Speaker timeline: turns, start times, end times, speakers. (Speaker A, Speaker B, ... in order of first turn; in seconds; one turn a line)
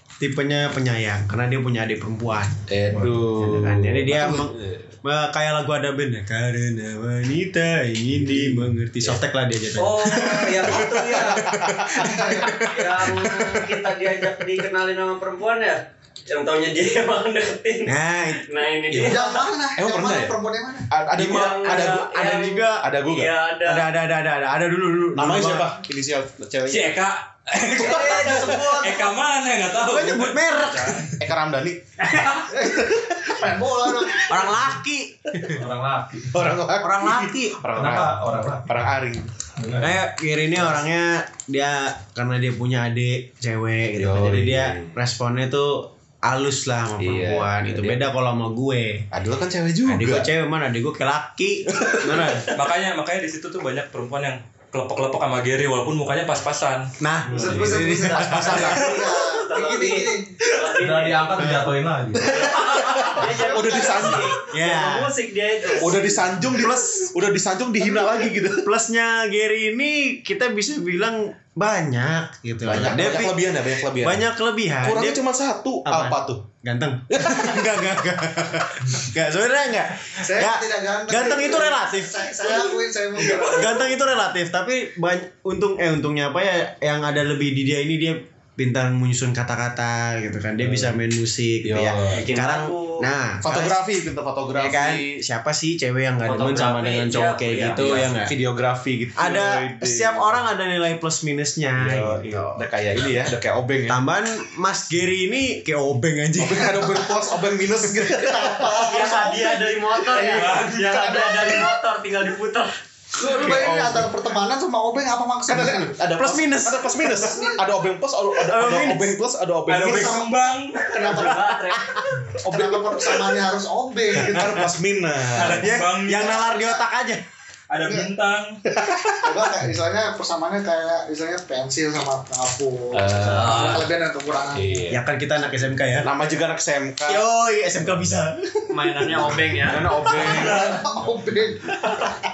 Speaker A: 0.2-2.6
Speaker B: 2.7-4.9
Speaker C: 2.9-3.5
Speaker A: 3.4-13.4
Speaker B: 8.1-9.2
Speaker D: 9.8-11.4
Speaker B: 10.3-13.5
Speaker E: 12.0-12.6
Speaker D: 12.7-19.5
Speaker A: 17.9-18.5
Speaker B: 18.9-19.2
Speaker E: 19.0-20.9
Speaker B: 19.8-20.3
Speaker B: 20.9-22.2
Speaker D: 21.2-23.9
Speaker A: 21.2-22.8
Speaker B: 22.8-23.3
Speaker A: 23.6-25.7
Speaker B: 25.1-27.0
Speaker F: 26.7-31.1
Speaker B: 27.7-28.7
Speaker D: 27.8-28.9
Speaker A: 29.8-31.1
Speaker B: 31.2-32.7
Speaker F: 32.1-32.4
Speaker E: 32.5-34.6
Speaker A: 34.1-35.6
Speaker C: 35.5-36.5
Speaker B: 36.3-39.3
Speaker A: 36.8-37.7
Speaker C: 37.7-38.7
Speaker C: 39.6-40.0
Speaker A: 39.8-49.0
Speaker B: 44.0-45.0
Speaker B: 47.0-48.1
Speaker B: 49.1-50.3
Speaker A: 49.9-52.5
Speaker B: 51.8-52.4
Speaker F: 52.5-56.9
Speaker A: 57.0-59.0
Speaker C: 57.3-58.0
Speaker E: 57.3-60.4
Speaker B: 57.6-58.8
Speaker D: 58.7-61.5
Speaker C: 60.8-62.4
Speaker A: 61.4-61.7
Speaker E: 62.3-63.9
Speaker D: 62.3-66.4
Speaker B: 62.7-64.4
Speaker A: 64.5-65.1
Speaker B: 65.8-68.7
Speaker A: 66.5-67.1
Speaker A: 68.6-73.4
Speaker B: 72.6-74.3
Speaker A: 74.0-75.2
Speaker B: 74.8-76.4
Speaker A: 75.9-93.8
Speaker B: 77.1-77.8
Speaker E: 80.2-83.9
Speaker B: 90.6-91.0
Speaker B: 91.6-92.3
Speaker D: 92.1-93.1
Speaker B: 93.4-95.1
Speaker A: 94.5-98.3
Speaker D: 96.2-98.0
Speaker B: 97.8-100.4
Speaker A: 99.2-102.7
Speaker B: 101.8-104.0
Speaker A: 103.9-107.1
Speaker B: 106.4-109.2
Speaker E: 108.0-110.4
Speaker D: 108.7-112.7
Speaker F: 110.1-111.4
Speaker E: 113.1-115.9
Speaker B: 113.2-114.1
Speaker B: 115.5-120.3
Speaker A: 116.2-117.3
Speaker E: 117.0-117.6
Speaker A: 118.4-119.1
Speaker F: 119.7-121.4
Speaker D: 120.9-122.0
Speaker E: 120.9-121.4
Speaker B: 122.4-123.3
Speaker E: 122.5-124.6
Speaker B: 124.1-125.8
Speaker F: 125.3-126.6
Speaker A: 125.5-127.2
Speaker F: 127.7-128.6
Speaker E: 127.8-128.1
Speaker B: 128.7-129.2
Speaker E: 129.2-134.9
Speaker B: 132.9-133.9
Speaker B: 134.5-135.0
Speaker A: 134.9-136.1
Speaker B: 136.0-137.3
Speaker A: 137.1-139.4
Speaker D: 138.7-140.0
Speaker B: 139.6-140.7
Speaker E: 140.0-142.1
Speaker F: 140.1-140.8